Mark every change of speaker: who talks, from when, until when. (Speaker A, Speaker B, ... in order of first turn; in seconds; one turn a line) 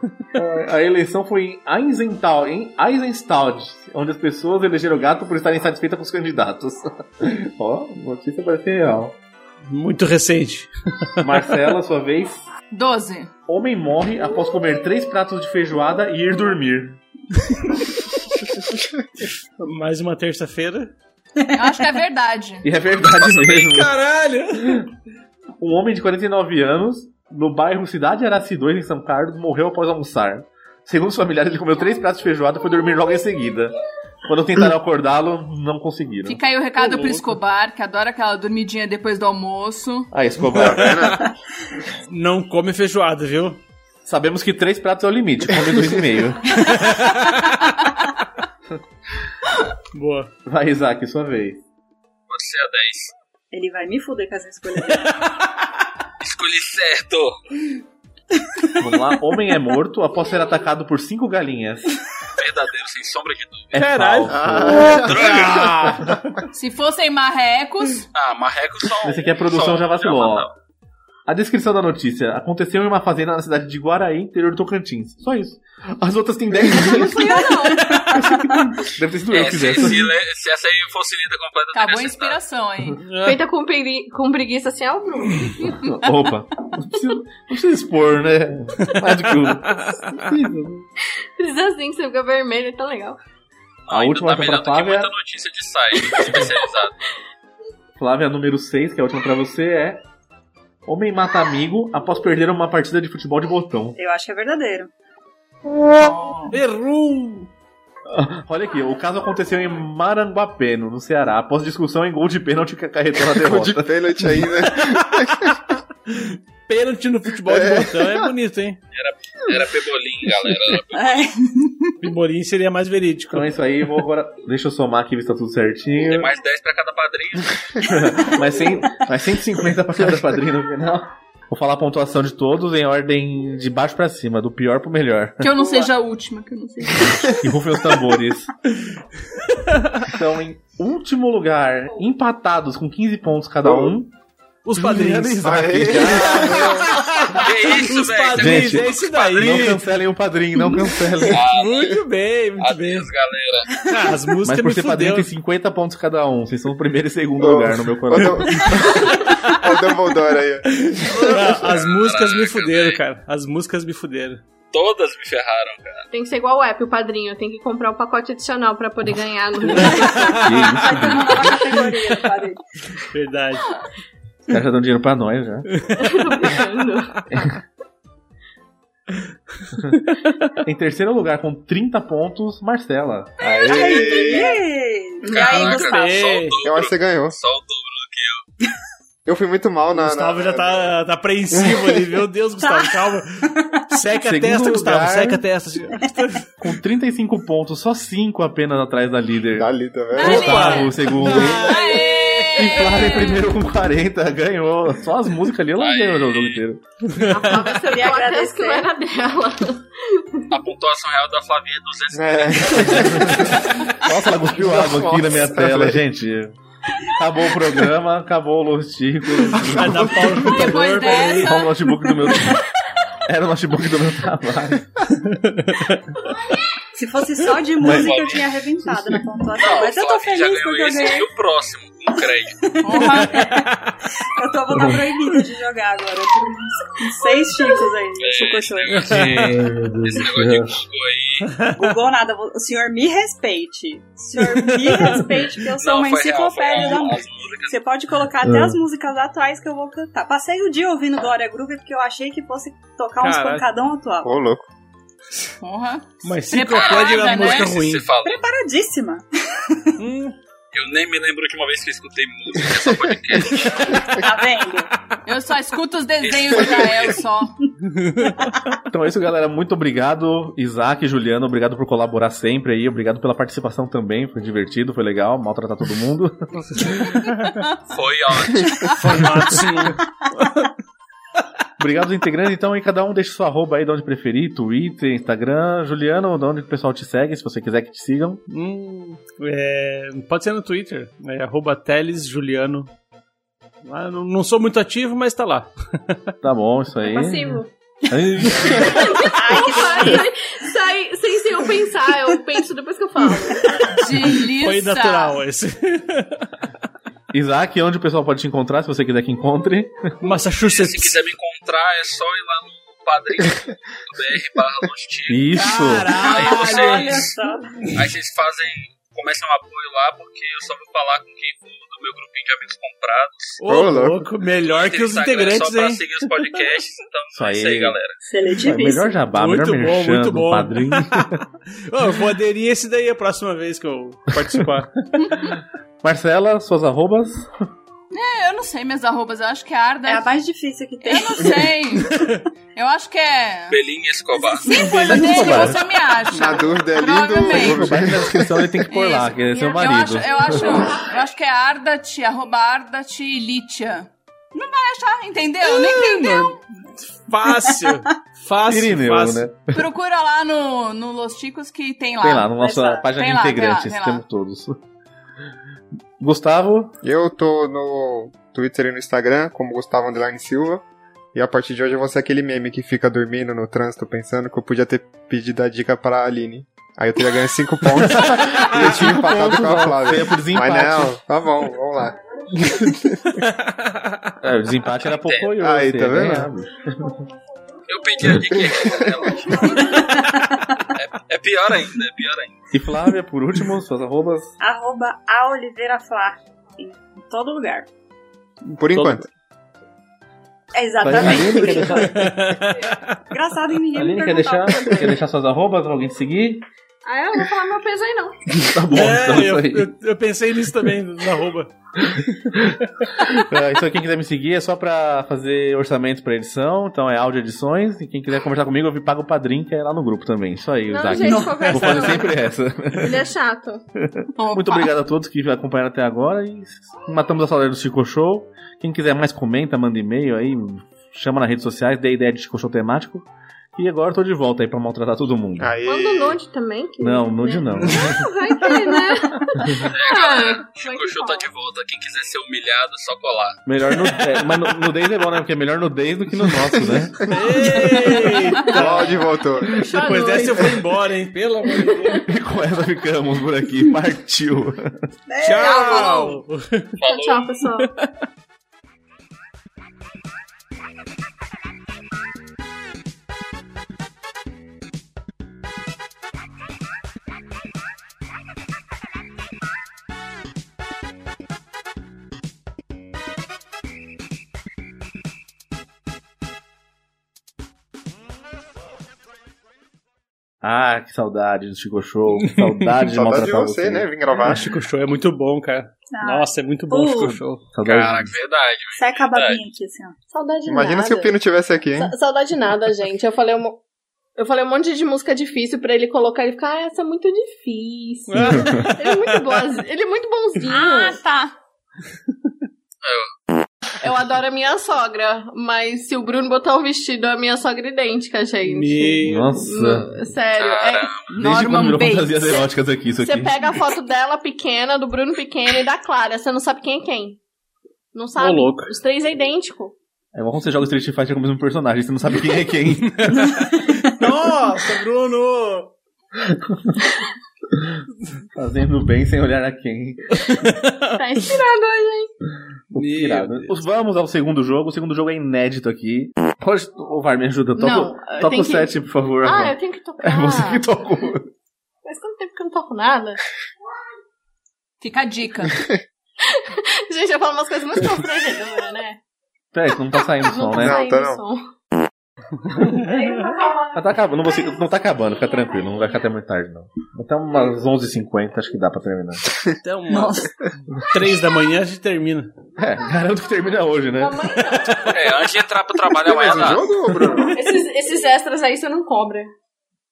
Speaker A: 0.3-9.2
Speaker B: 9.7-11.3
Speaker A: 11.2-12.4
Speaker C: 12.7-13.3
Speaker A: 13.5-17.0
Speaker B: 19.6-20.9
Speaker C: 21.5-22.7
Speaker A: 22.6-23.9
Speaker D: 23.2-23.8
Speaker B: 23.8-24.8
Speaker A: 24.6-24.9
Speaker A: 25.6-36.4
Speaker C: 36.2-40.1
Speaker B: 36.8-37.2
Speaker A: 40.1-41.2
Speaker E: 40.5-41.2
Speaker B: 40.5-41.1
Speaker B: 42.1-43.6
Speaker A: 44.0-46.7
Speaker B: 46.6-47.6
Speaker B: 49.9-50.3
Speaker A: 50.4-51.6
Speaker D: 52.3-53.1
Speaker F: 53.5-55.1
Speaker B: 54.9-55.2
Speaker D: 56.2-57.4
Speaker A: 58.8-61.9
Speaker D: 62.4-63.7
Speaker A: 63.7-66.2
Speaker B: 63.7-66.2
Speaker E: 64.3-65.9
Speaker D: 65.0-65.6
Speaker C: 66.5-68.1
Speaker D: 68.1-70.5
Speaker A: 69.0-70.5
Speaker A: 71.2-80.1
Speaker G: 76.8-77.9
Speaker F: 77.1-78.5
Speaker D: 79.3-82.4
Speaker C: 81.7-83.0
Speaker B: 83.0-83.4
Speaker G: 83.2-85.8
Speaker A: 85.6-90.9
Speaker B: 88.8-89.2
Speaker B: 89.8-90.2
Speaker G: 91.4-93.2
Speaker D: 93.9-96.9
Speaker A: 93.9-95.1
Speaker A: 98.0-100.0
Speaker A: 100.8-104.0
Speaker F: 103.9-104.9
Speaker F: 106.0-106.5
Speaker B: 106.5-107.5
Speaker A: 108.1-114.7
Speaker E: 113.2-115.5
Speaker B: 116.1-118.8
Speaker E: 117.5-118.3
Speaker D: 118.9-121.3
Speaker F: 120.9-121.9
Speaker B: 122.0-123.5
Speaker A: 123.3-126.3
Speaker D: 126.0-128.0
Speaker A: 127.8-135.6
Speaker C: 135.4-137.4
Speaker A: 137.4-138.5
Speaker B: 139.5-140.1
Speaker A: 140.0-144.1
Speaker E: 143.6-143.9
Speaker B: 144.6-149.8
Speaker A: 144.7-146.8
Speaker E: 145.4-146.8
Speaker D: 147.3-149.7
Speaker A: 148.3-151.4
Speaker D: 151.3-152.0
Speaker B: 151.4-153.1
Speaker D: 152.6-153.8
Speaker B: 153.8-155.3
Speaker A: 154.4-159.3
Speaker E: 157.4-161.6
Speaker B: 159.1-159.6
Speaker B: 160.7-164.4
Speaker D: 161.6-163.0
Speaker D: 164.7-166.1
Speaker G: 166.1-170.5
Speaker B: 169.7-172.2
Speaker A: 169.8-171.4
Speaker F: 170.1-172.6
Speaker B: 173.0-173.7
Speaker A: 174.5-175.7
Speaker B: 175.7-176.2
Speaker G: 175.9-177.2
Speaker A: 177.3-177.6
Speaker B: 179.9-180.6
Speaker A: 180.6-183.4
Speaker E: 183.4-184.6
Speaker F: 183.7-186.2
Speaker D: 185.2-188.4
Speaker B: 185.4-186.6
Speaker E: 186.6-187.4
Speaker E: 189.2-190.9
Speaker B: 189.9-196.5
Speaker E: 191.5-192.1
Speaker F: 192.6-193.8
Speaker A: 194.2-195.4
Speaker A: 196.6-202.0
Speaker E: 199.6-200.8
Speaker C: 200.1-203.4
Speaker B: 200.2-202.8
Speaker A: 202.6-206.8
Speaker D: 205.8-206.6
Speaker B: 207.1-207.5
Speaker G: 207.2-210.5
Speaker F: 207.7-208.9
Speaker D: 210.5-213.5
Speaker E: 212.1-213.8
Speaker A: 212.9-213.5
Speaker A: 214.0-216.6
Speaker E: 214.5-216.0
Speaker A: 217.1-222.7
Speaker B: 219.6-221.6
Speaker C: 220.4-221.8
Speaker A: 223.2-225.1
Speaker B: 225.2-226.0
Speaker F: 226.9-231.3
Speaker A: 227.8-228.2
Speaker D: 227.8-228.4
Speaker D: 229.6-232.6
Speaker F: 232.6-233.7
Speaker C: 232.8-233.3
Speaker B: 233.0-233.9
Speaker F: 234.2-239.1
Speaker D: 238.2-239.2
Speaker B: 238.9-239.6
Speaker A: 239.0-240.8
Speaker D: 240.1-241.4
Speaker F: 241.8-254.3
Speaker B: 244.4-245.3
Speaker D: 245.8-247.8
Speaker A: 248.4-248.8
Speaker B: 253.2-253.6
Speaker E: 254.2-254.7
Speaker C: 255.6-257.7
Speaker B: 256.2-258.1
Speaker D: 256.7-258.4
Speaker F: 258.2-259.9
Speaker B: 260.0-260.4
Speaker D: 260.7-264.2
Speaker F: 264.1-264.9
Speaker C: 265.2-267.5
Speaker D: 266.2-267.2
Speaker B: 267.9-268.3
Speaker A: 268.9-277.1
Speaker D: 277.9-279.0
Speaker E: 278.5-279.1
Speaker B: 279.0-280.7
Speaker A: 281.8-288.4
Speaker B: 288.5-292.9
Speaker B: 293.8-296.2
Speaker A: 296.4-299.1
Speaker G: 297.0-297.7
Speaker G: 298.7-303.8
Speaker F: 299.1-300.3
Speaker C: 303.9-305.4
Speaker B: 304.1-306.5
Speaker A: 307.3-310.1
Speaker B: 310.2-311.2
Speaker D: 310.7-315.5
Speaker A: 315.3-316.1
Speaker B: 315.5-317.3
Speaker D: 316.2-317.2
Speaker F: 316.2-317.8
Speaker D: 317.9-323.6
Speaker B: 323.6-326.6
Speaker E: 323.6-324.3
Speaker D: 324.6-328.1
Speaker A: 327.3-328.0
Speaker F: 328.2-329.2
Speaker A: 328.6-331.4
Speaker B: 329.3-335.1
Speaker C: 335.2-335.5
Speaker A: 336.0-337.6
Speaker C: 338.1-340.3
Speaker F: 340.1-341.6
Speaker C: 341.0-342.2
Speaker B: 342.1-342.4
Speaker C: 342.7-343.8
Speaker D: 343.7-345.0
Speaker C: 344.6-347.9
Speaker F: 344.6-345.3
Speaker A: 344.8-345.8
Speaker B: 345.4-345.7
Speaker E: 346.3-348.8
Speaker A: 347.5-350.9
Speaker C: 348.9-356.6
Speaker B: 356.0-356.4
Speaker B: 356.9-359.5
Speaker A: 358.6-359.8
Speaker C: 359.7-364.2
Speaker A: 362.2-364.8
Speaker A: 366.2-366.9
Speaker E: 367.0-382.1
Speaker A: 378.0-381.2
Speaker E: 382.8-383.1
Speaker B: 383.4-384.3
Speaker A: 384.4-387.3
Speaker D: 385.0-385.5
Speaker E: 385.6-386.5
Speaker D: 387.9-390.2
Speaker E: 388.5-389.4
Speaker F: 389.6-390.6
Speaker D: 390.9-392.6
Speaker A: 392.7-394.5
Speaker F: 394.6-397.9
Speaker E: 398.8-399.3
Speaker A: 398.9-399.2
Speaker F: 400.7-402.2
Speaker A: 401.0-402.6
Speaker B: 401.9-403.2
Speaker F: 403.3-405.1
Speaker A: 403.9-406.6
Speaker G: 407.0-408.4
Speaker A: 408.5-409.9
Speaker B: 408.9-412.4
Speaker A: 413.2-423.3
Speaker G: 420.9-422.3
Speaker C: 421.1-422.2
Speaker G: 422.9-423.8
Speaker A: 424.0-435.7
Speaker C: 424.4-424.9
Speaker E: 435.6-436.4
Speaker G: 435.9-441.5
Speaker A: 437.0-438.2
Speaker D: 439.9-443.6
Speaker A: 443.6-448.2
Speaker B: 447.3-452.3
Speaker G: 448.0-448.4
Speaker E: 448.7-449.8
Speaker G: 449.8-450.8
Speaker G: 451.8-452.2
Speaker A: 452.2-455.0
Speaker F: 455.3-456.4
Speaker B: 455.4-456.9
Speaker D: 457.0-457.5
Speaker G: 457.1-457.9
Speaker B: 457.8-458.1
Speaker A: 480.6-484.1
Speaker B: 482.4-482.9
Speaker E: 483.1-484.6
Speaker B: 484.4-487.7
Speaker F: 486.1-487.4
Speaker A: 487.7-488.3
Speaker D: 487.8-489.6
Speaker F: 489.0-490.1
Speaker G: 490.3-491.3
Speaker E: 490.7-492.1
Speaker G: 492.0-493.8
Speaker G: 494.4-501.2
Speaker B: 498.3-499.6
Speaker C: 500.7-501.5
Speaker D: 503.0-503.3
Speaker G: 504.0-511.1
Speaker B: 508.6-509.5
Speaker A: 509.2-510.1
Speaker D: 510.6-511.3
Speaker C: 511.3-512.6
Speaker A: 511.3-513.6
Speaker G: 513.2-517.4
Speaker G: 518.1-520.0
Speaker B: 518.4-518.9
Speaker A: 520.3-523.6
Speaker B: 523.4-525.9
Speaker A: 526.5-526.9
Speaker A: 528.5-530.5
Speaker B: 530.4-531.2
Speaker G: 531.1-532.3
Speaker A: 532.9-541.5
Speaker B: 532.9-533.8
Speaker G: 537.8-540.9
Speaker G: 542.0-543.4
Speaker C: 545.0-545.8
Speaker G: 546.4-549.2
Speaker A: 549.7-551.0
Speaker G: 550.2-551.6
Speaker E: 550.6-551.4
Speaker A: 552.7-553.0
Speaker G: 553.1-553.8
Speaker A: 553.7-559.5
Speaker B: 559.8-560.5
Speaker F: 560.1-560.5
Speaker B: 561.0-562.5
Speaker A: 562.8-565.3
Speaker G: 564.2-565.1
Speaker D: 565.1-566.9
Speaker E: 566.2-567.5
Speaker G: 567.4-569.5